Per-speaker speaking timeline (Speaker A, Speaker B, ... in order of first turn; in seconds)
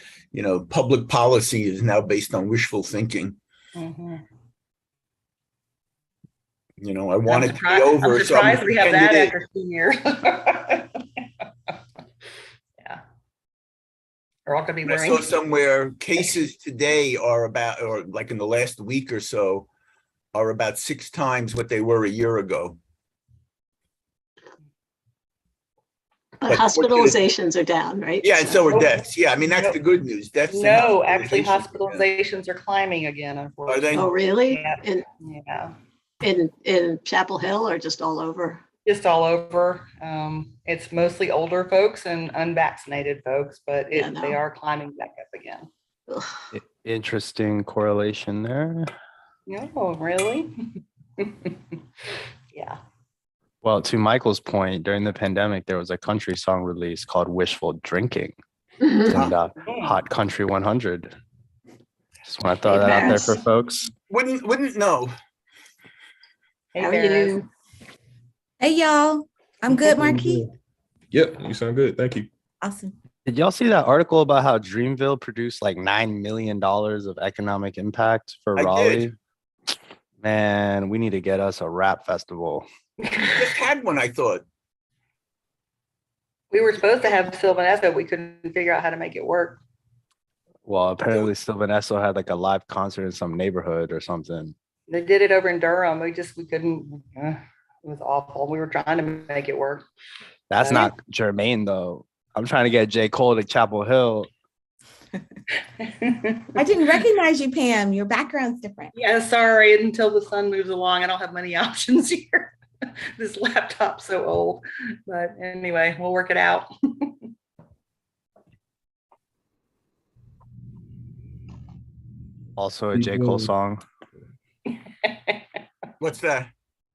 Speaker A: 0.3-3.4, 6.8-9.3, 14.8-19.7, 20.3-22.8, 26.4-27.2, 28.2-32.0, 33.7-34.1, 64.1-65.1, 78.6-79.1, 83.2-84.4, 126.0-126.5
Speaker B: 3.8-4.2, 7.3-11.0, 14.4-15.3, 28.7-29.8, 30.5-35.7, 38.8-45.7, 49.5-50.5, 51.2-51.5, 66.7-67.4, 86.5-89.6, 94.9-99.8, 100.6-100.9, 105.8-106.5, 109.0-112.5, 113.2-117.1, 125.0-125.4
Speaker C: 26.4-28.7, 33.9-35.0, 36.2-38.6, 43.9-44.4, 62.7-63.3, 66.8-67.5
Speaker D: 46.5-48.9, 53.6-58.3, 59.0-61.1, 62.2-63.9, 73.2-79.1, 80.2-82.7, 90.7-94.5, 100.5-104.3, 122.6-123.8
Speaker E: 68.6-70.4, 72.6-72.9, 106.5-108.9
Speaker F: 69.9-70.5, 71.1-72.3, 122.9-123.5